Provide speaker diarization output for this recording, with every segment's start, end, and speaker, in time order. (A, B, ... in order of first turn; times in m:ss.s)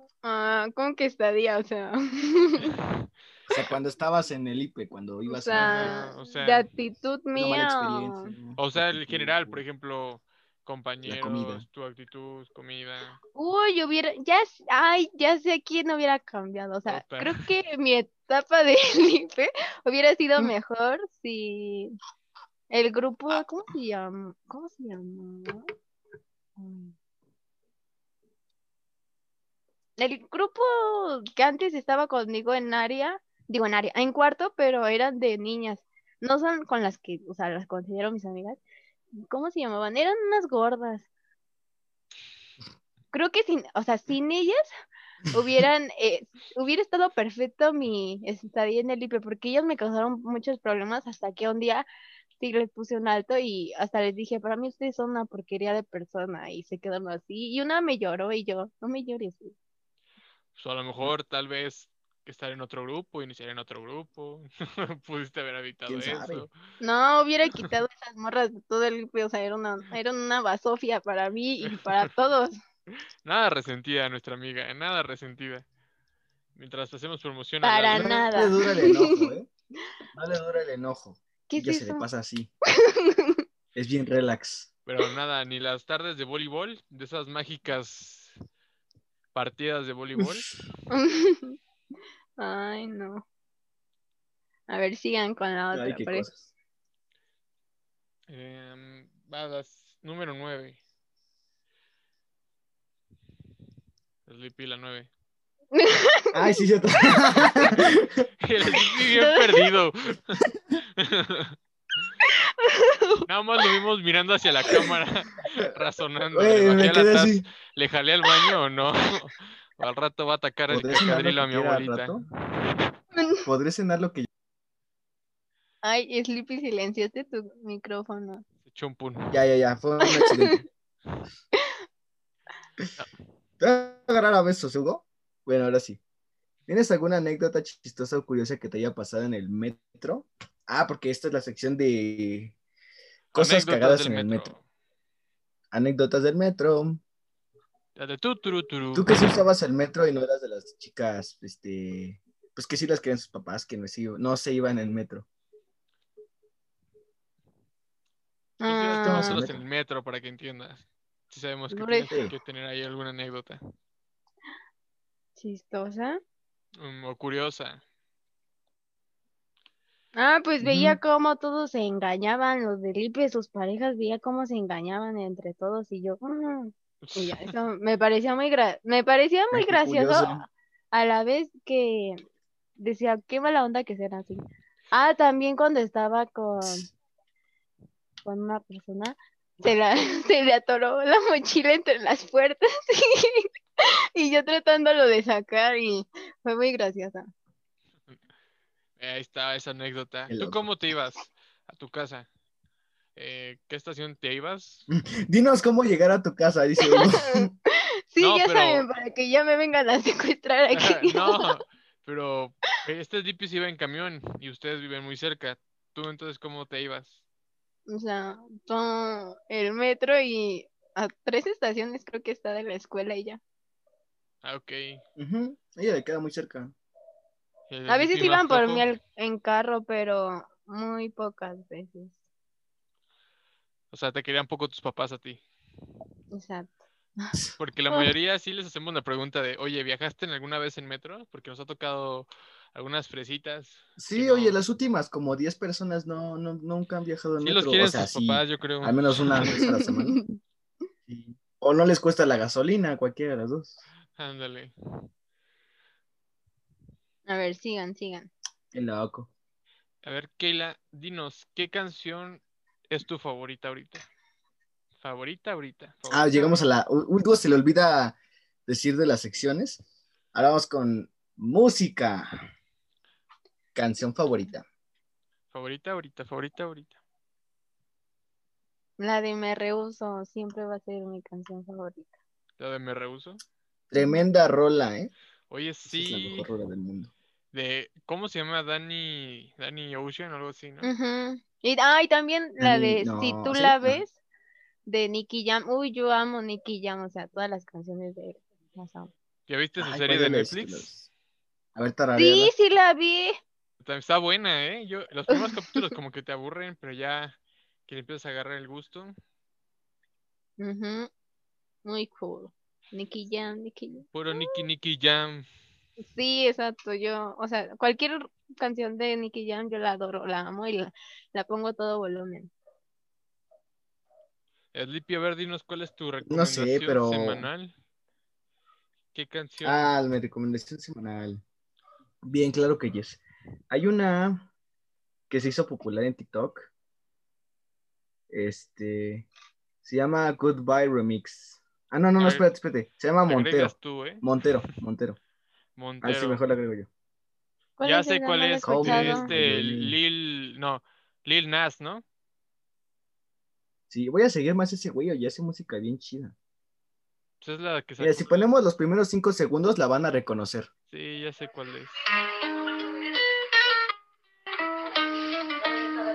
0:00.2-0:02.8 A
0:02.7-0:03.1 B
0:03.5-0:06.0 C
0:05.3-0:08.3 A
0:05.6-0:06.7 B
0:07.4-0:09.6 C
0:08.6-0:13.2 B
0:11.0-0:11.6 C
0:13.4-0:22.0 A
0:16.9-0:17.5 B
0:22.7-0:25.7 A
0:26.6-0:27.0 A
0:30.0-0:38.6 A
0:39.2-0:41.1 A
0:43.1-0:44.7 A
0:45.3-0:51.9 A
0:52.4-0:59.6 A
1:00.6-1:06.5 B
1:05.9-1:06.5 C
1:06.8-1:12.6 A
1:13.2-1:15.7 B
1:16.6-1:18.3 B
1:17.6-1:19.4 A
1:17.9-1:19.5 C
1:20.2-1:22.5 C
1:21.5-1:22.1 A
1:22.7-1:23.4 A
1:23.8-1:24.7 C
1:24.9-1:28.4 B
1:29.3-1:30.5 B
1:30.2-1:30.4 C
1:30.9-1:31.6 A
1:32.4-1:33.2 A
1:34.7-1:36.2 A
1:35.7-1:36.5 C
1:38.3-1:40.8 B
1:44.3-1:45.1 B
1:45.7-1:46.6 A
1:46.3-1:48.2 C
1:47.6-1:50.4 B
1:48.8-1:49.7 A
1:51.0-1:51.6 B
1:52.2-1:53.3 A
1:53.3-2:02.2 B
1:56.3-1:57.5 C
2:00.7-2:02.2 C
2:03.2-2:03.5 A
2:03.5-2:04.3 C
2:05.8-2:08.4 A
2:08.6-2:09.4 B
2:09.3-2:10.6 C
2:10.1-2:10.6 A
2:13.6-2:16.0 C
2:16.7-2:22.6 C
2:23.3-2:24.6 B
2:23.3-2:24.5 C
2:25.7-2:27.0 C
2:28.0-2:29.2 B
2:29.0-2:35.3 C
2:38.6-2:39.5 A
2:38.7-2:43.6 B
2:39.0-2:39.6 C
2:41.7-2:42.2 A
2:45.4-2:46.2 A
2:46.8-2:47.8 B
2:50.1-3:02.2 A
2:50.6-2:51.0 C
2:57.0-2:57.5 B
2:59.5-3:00.4 C
3:02.8-3:06.9 A
3:08.2-3:17.3 A
3:19.0-3:22.3 B
3:20.3-3:20.7 C
3:23.2-3:24.9 B
3:24.9-3:27.5 C
3:26.8-3:31.6 A
3:28.2-3:28.9 B
3:30.7-3:37.2 B
3:37.9-3:43.4 A
3:44.4-3:45.0 B
3:45.2-3:46.7 C
3:47.7-3:48.9 B
3:47.9-3:52.2 A
3:53.9-3:55.4 B
3:56.3-3:57.4 A
3:57.6-4:04.6 B
4:04.0-4:10.2 C
4:07.4-4:09.5 B
4:09.5-4:10.4 A
4:11.1-4:13.8 C
4:14.1-4:14.7 B
4:17.3-4:18.3 A
4:18.7-4:19.3 C
4:20.0-4:24.0 B
4:25.0-4:26.6 B
4:26.1-4:28.2 C
4:28.7-4:32.3 C
4:33.8-4:34.6 C
4:35.5-4:37.0 B
4:39.0-4:42.1 A
4:42.6-4:43.4 B
4:43.9-4:45.1 C
4:44.0-4:44.2 A
4:45.5-4:46.5 B
4:45.9-4:47.1 C
4:47.5-4:50.9 B
4:50.8-4:54.2 A
4:52.6-4:54.0 C
4:54.9-4:59.1 A
4:59.5-5:00.9 B
4:59.8-5:01.1 C
5:01.8-5:02.5 C
5:02.2-5:03.4 A
5:03.8-5:09.1 B
5:05.3-5:05.8 A
5:10.6-5:11.1 A
5:11.8-5:14.6 A
5:14.1-5:15.5 B
5:16.0-5:22.5 A
5:24.7-5:27.7 B
5:26.2-5:27.5 C
5:29.1-5:29.9 B
5:29.6-5:31.4 C
5:32.2-5:34.5 C
5:35.3-5:36.7 C
5:38.3-5:39.3 C
5:39.8-5:45.2 C
5:42.2-5:42.5 B
5:43.3-5:44.2 B
5:45.8-5:46.5 B
5:46.0-5:46.9 C
5:47.8-5:49.3 A
5:47.8-5:52.0 B
5:48.6-5:50.0 C
5:53.9-5:56.4 C
5:57.4-5:58.5 B
5:58.0-6:00.7 C
6:00.9-6:02.0 B